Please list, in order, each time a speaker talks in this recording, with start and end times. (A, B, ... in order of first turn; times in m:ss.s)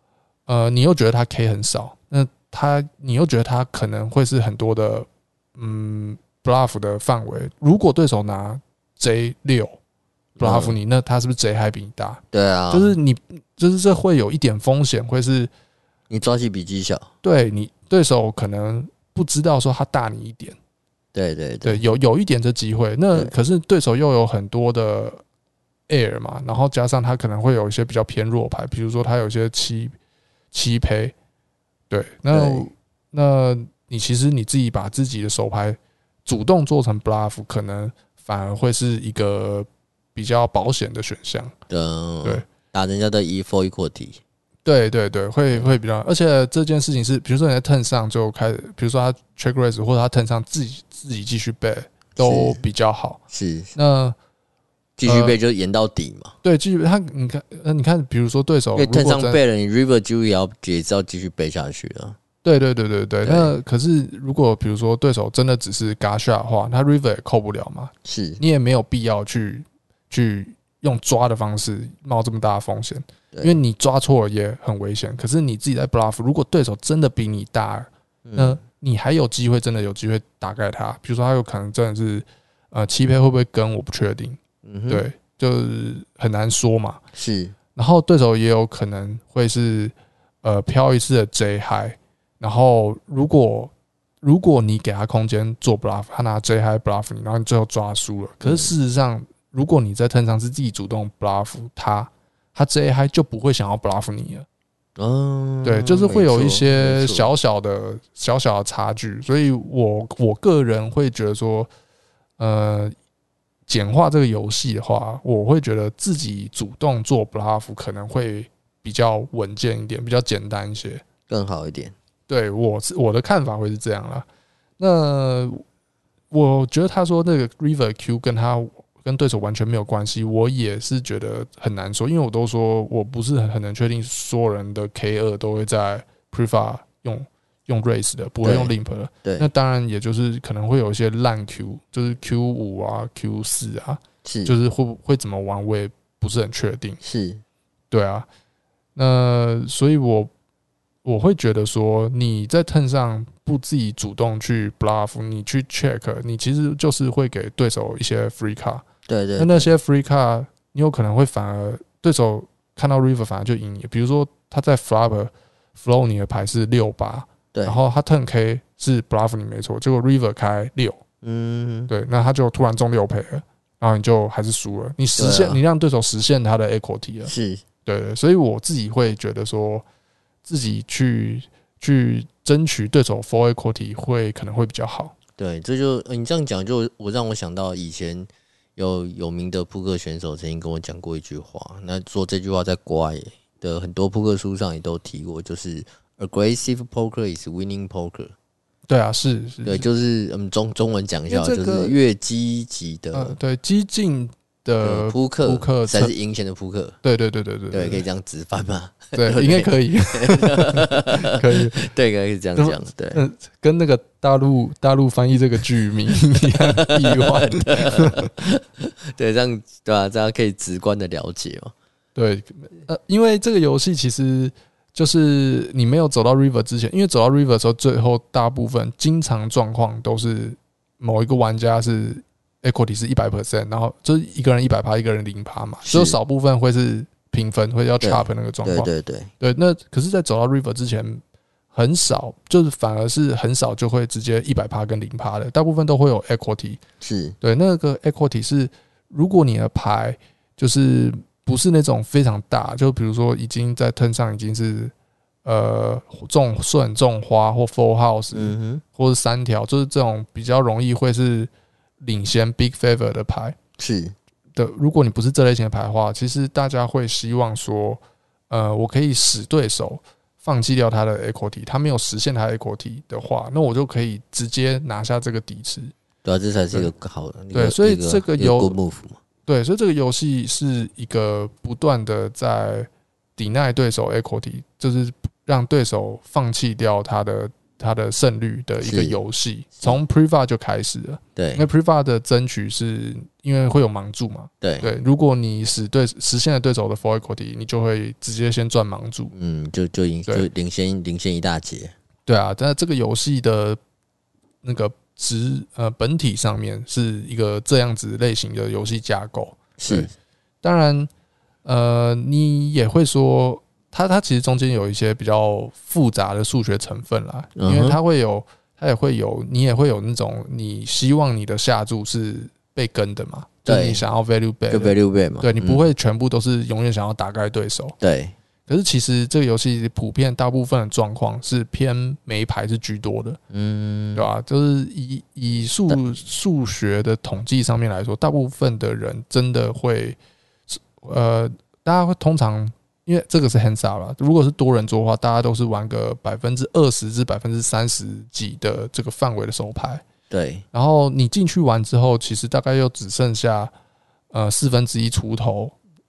0:00.5-0:09.8 A
0:10.4-0:10.8 B
0:10.4-0:15.5 A
0:12.3-0:13.0 B
0:16.1-0:17.1 B
0:17.2-0:20.6 A
0:21.1-0:21.8 B
0:21.6-0:25.2 A
0:25.9-0:30.0 A
0:30.5-0:31.1 A
0:31.9-0:41.6 A
0:32.3-0:32.7 B
0:41.7-0:44.2 B
0:44.6-0:53.2 A
0:52.2-0:52.6 B
0:53.3-0:53.8 B
0:53.8-0:54.2 A
0:55.0-0:56.4 B
0:55.0-0:55.4 A
0:56.4-0:59.4 A
0:58.8-1:02.2 B
1:02.4-1:24.4 A
1:03.2-1:03.5 B
1:08.0-1:08.4 B
1:13.3-1:13.6 B
1:18.3-1:18.6 B
1:24.6-1:25.0 B
1:24.9-1:27.0 A
1:27.1-1:27.6 B
1:27.8-1:44.5 A
1:38.4-1:38.7 B
1:45.0-1:47.3 B
1:45.6-1:51.7 A
1:52.4-1:53.0 A
1:53.7-2:01.0 A
2:01.3-2:02.0 B
2:02.3-2:04.3 A
2:04.8-2:05.6 A
2:06.3-2:27.0 A
2:18.4-2:18.7 B
2:19.2-2:19.5 B
2:24.2-2:24.6 B
2:27.0-2:27.4 B
2:27.9-2:28.3 A
2:29.0-2:30.3 A
2:31.0-2:38.8 A
2:39.1-2:39.7 B
2:39.4-2:51.0 A
2:47.5-2:47.8 B
2:51.2-2:51.9 B
2:51.9-2:57.3 A
2:55.2-2:55.6 B
2:57.2-2:57.6 B
2:57.9-2:59.8 A
3:00.5-3:05.1 A
3:05.4-3:18.3 B
3:18.9-3:19.9 A
3:19.6-3:23.4 B
3:21.3-3:22.0 A
3:23.1-3:26.1 A
3:24.8-3:27.0 B
3:27.0-3:28.0 A
3:27.7-3:33.2 B
3:29.1-3:31.9 A
3:32.6-3:38.3 A
3:36.6-3:41.7 B
3:42.2-3:58.9 A
3:55.8-3:56.2 B
3:58.0-3:59.3 B
3:59.4-4:01.2 A
4:01.7-4:06.8 A
4:07.0-4:07.4 B
4:07.4-4:14.9 A
4:15.4-4:21.5 A
4:18.3-4:18.8 B
4:22.0-4:23.6 A
4:23.8-4:24.2 B
4:24.6-4:35.9 A
4:36.2-4:39.2 B
4:37.5-4:38.8 A
4:39.5-4:59.3 A
4:48.8-4:49.2 B
4:51.4-4:51.7 B
4:54.6-4:54.9 B
4:59.3-5:02.0 B
5:02.3-5:03.8 A
5:04.6-5:10.1 A
5:09.8-5:10.1 B
5:10.6-5:11.1 A
5:11.6-5:28.0 A
5:17.6-5:18.0 B
5:23.7-5:24.0 B
5:24.7-5:25.9 B
5:28.0-5:28.4 B
5:28.7-5:33.4 A
5:33.5-5:34.3 B
5:34.2-5:40.2 A
5:40.7-5:50.0 A
5:50.3-5:50.6 B
5:50.7-5:53.7 A
5:54.3-5:55.8 A